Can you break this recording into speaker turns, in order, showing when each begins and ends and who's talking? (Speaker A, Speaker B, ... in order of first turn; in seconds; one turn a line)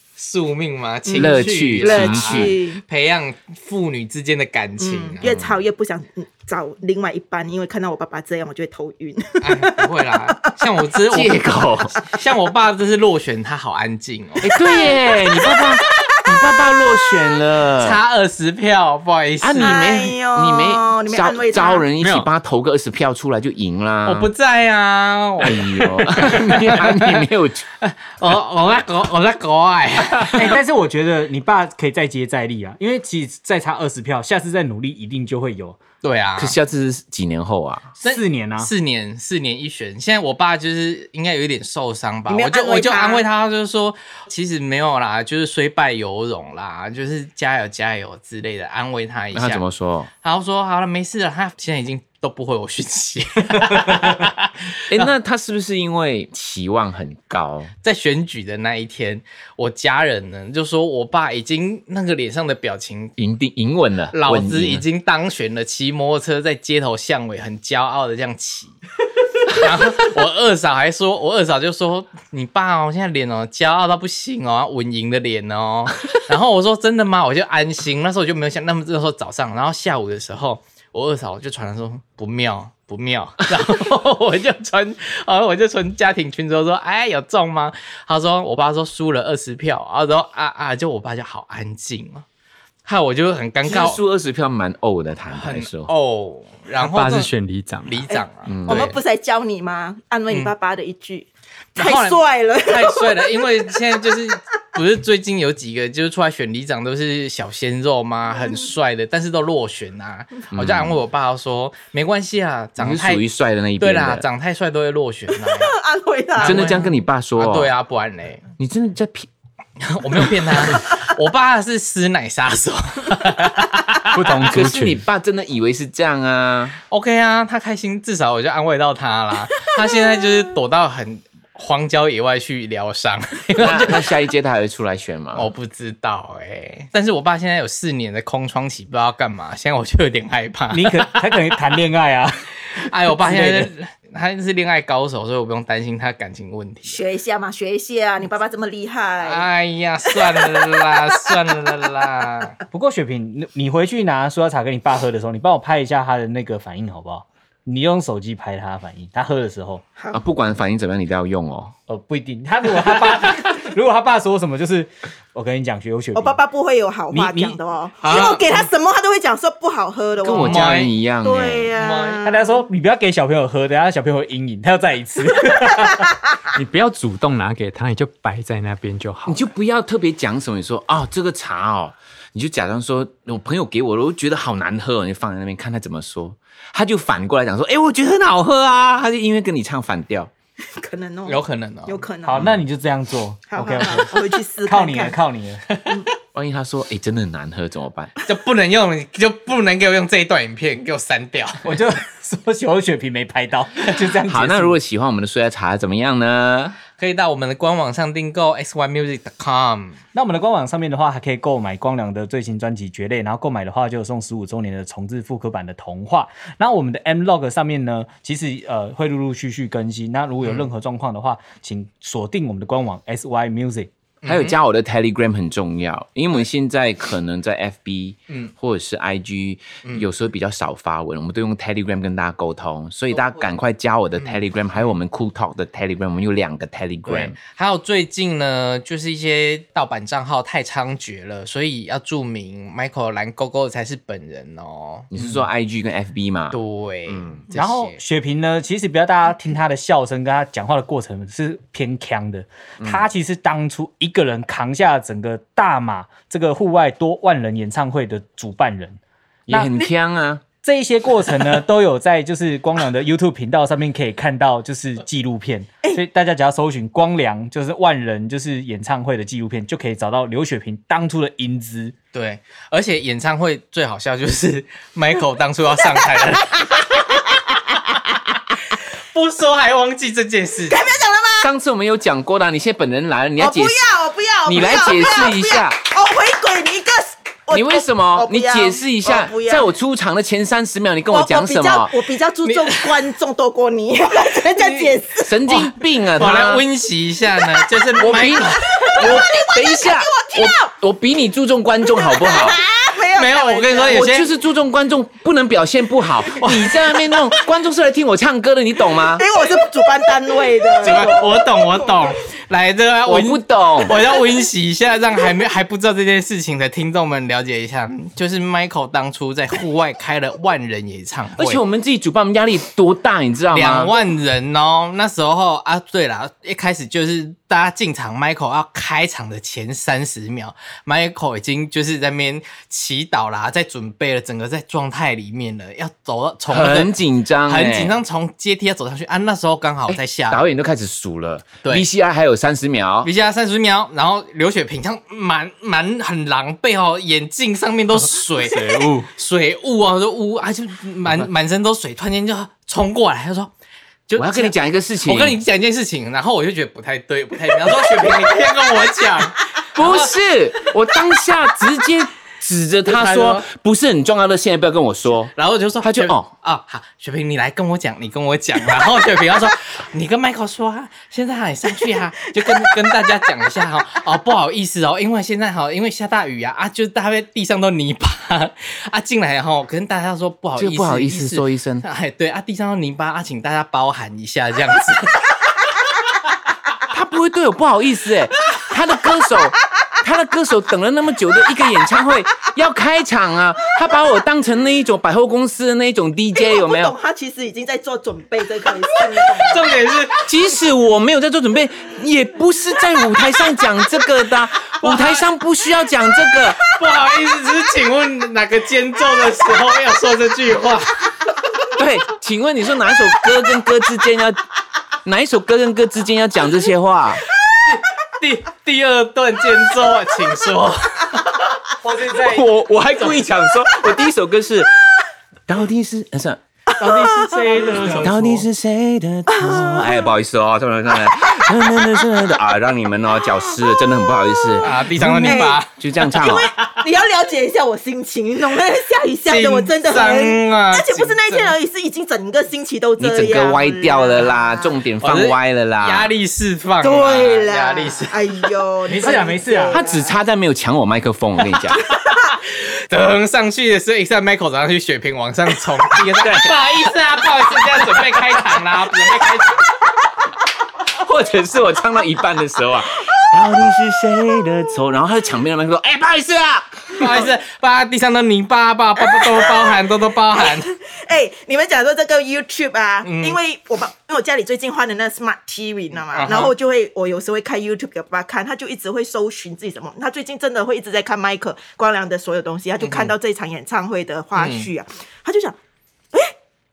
Speaker A: 0.2-5.3
Speaker B: 1.1-2.8
Speaker C: 1.1-2.6
Speaker B: 4.8-10.5
Speaker C: 5.2-5.5
Speaker A: 9.4-14.5
Speaker C: 11.0-12.0
Speaker C: 14.4-18.0
Speaker B: 14.5-16.5
Speaker A: 17.8-19.8
Speaker C: 19.4-24.3
Speaker B: 19.6-21.9
Speaker D: 22.0-22.3
Speaker A: 24.0-27.2
Speaker C: 25.4-27.6
Speaker A: 27.8-30.6
Speaker E: 30.3-35.8
Speaker A: 36.0-36.5
Speaker C: 36.4-37.9
Speaker A: 38.0-49.6
Speaker E: 38.0-38.7
Speaker B: 42.3-43.2
Speaker C: 49.3-50.1
Speaker A: 50.2-55.1
Speaker C: 54.9-57.7
Speaker A: 57.8-63.1
Speaker C: 63.2-64.8
Speaker A: 64.1-68.8
Speaker A: 69.4-92.2
Speaker A: 92.8-94.0
Speaker C: 93.6-95.9
Speaker A: 95.3-97.3
Speaker D: 96.8-98.1
Speaker A: 97.8-99.0
Speaker B: 98.1-103.6
Speaker C: 98.5-98.9
Speaker A: 101.7-113.2
Speaker C: 110.5-111.0
Speaker C: 112.8-114.2
Speaker A: 113.8-115.7
Speaker B: 115.4-116.8
Speaker A: 116.4-118.4
Speaker C: 116.4-117.7
Speaker C: 118.6-119.3
Speaker A: 119.8-124.2
Speaker D: 124.1-125.0
Speaker C: 124.4-126.8
Speaker A: 126.9-134.1
Speaker C: 133.6-135.5
Speaker A: 135.3-141.3
Speaker E: 140.7-143.7
Speaker A: 142.7-147.0
Speaker B: 146.8-149.5
Speaker A: 149.2-152.5
Speaker B: 150.1-150.8
Speaker E: 152.7-159.8
Speaker B: 159.9-160.2
Speaker C: 160.1-161.7
Speaker E: 161.9-166.4
Speaker B: 166.1-172.6
Speaker E: 167.1-167.6
Speaker A: 168.0-168.7
Speaker C: 170.2-171.7
Speaker A: 170.3-171.0
Speaker A: 171.8-172.3
Speaker E: 172.2-176.1
Speaker D: 176.5-179.5
Speaker C: 179.2-190.3
Speaker B: 190.7-192.4
Speaker A: 191.2-192.0
Speaker E: 192.2-195.8
Speaker B: 193.5-195.2
Speaker A: 195.7-196.0
Speaker C: 196.3-198.1
Speaker A: 198.2-201.7
Speaker E: 201.6-204.8
Speaker C: 204.2-206.8
Speaker A: 207.0-210.0
Speaker E: 210.1-223.9
Speaker A: 224.2-224.6
Speaker C: 224.2-237.3
Speaker A: 237.1-245.1
Speaker C: 245.1-247.4
Speaker A: 246.5-248.0
Speaker E: 247.5-259.7
Speaker C: 252.8-253.1
Speaker C: 259.5-260.4
Speaker E: 260.6-271.9
Speaker A: 272.1-276.8
Speaker B: 275.8-277.9
Speaker A: 279.1-280.9
Speaker B: 280.7-281.5
Speaker C: 281.4-283.9
Speaker B: 283.4-289.7
Speaker C: 284.4-285.8
Speaker C: 287.5-291.9
Speaker B: 291.1-295.4
Speaker A: 292.4-292.9
Speaker A: 294.6-294.9
Speaker C: 295.2-296.6
Speaker A: 295.4-299.2
Speaker C: 298.0-302.6
Speaker B: 298.6-300.7
Speaker B: 301.9-304.2
Speaker A: 303.1-304.3
Speaker C: 303.9-309.2
Speaker B: 308.9-311.9
Speaker A: 310.7-321.6
Speaker C: 313.1-314.0
Speaker C: 321.4-323.9
Speaker A: 323.5-340.5
Speaker C: 336.5-338.0
Speaker C: 339.9-343.1
Speaker A: 343.0-353.5
Speaker A: 354.1-360.1
Speaker C: 354.1-355.4
Speaker C: 359.7-366.3
Speaker A: 362.8-363.5
Speaker A: 365.3-385.3
Speaker C: 380.6-381.8
Speaker C: 386.9-396.9
Speaker B: 396.4-399.8
Speaker A: 399.4-400.2
Speaker C: 400.2-406.6
Speaker A: 404.8-405.2
Speaker A: 406.7-410.9
Speaker C: 411.8-414.4
Speaker C: 415.0-417.2
Speaker A: 417.7-421.3
Speaker E: 421.8-422.5
Speaker C: 422.2-424.8
Speaker C: 425.5-426.4
Speaker E: 426.8-428.4
Speaker B: 427.3-427.6
Speaker A: 427.8-428.3
Speaker C: 428.0-436.5
Speaker B: 429.3-430.1
Speaker A: 434.6-436.6
Speaker B: 435.2-444.7
Speaker A: 439.2-441.6
Speaker C: 443.0-446.1
Speaker A: 445.0-448.2
Speaker B: 446.8-450.1
Speaker E: 448.9-449.8
Speaker C: 449.7-451.8
Speaker A: 452.9-459.6
Speaker C: 456.2-456.6
Speaker C: 460.9-467.3
Speaker A: 466.9-470.7
Speaker B: 469.2-469.8
Speaker B: 470.4-485.6
Speaker A: 473.0-473.4
Speaker A: 476.1-476.5
Speaker A: 482.8-483.1
Speaker A: 484.4-484.7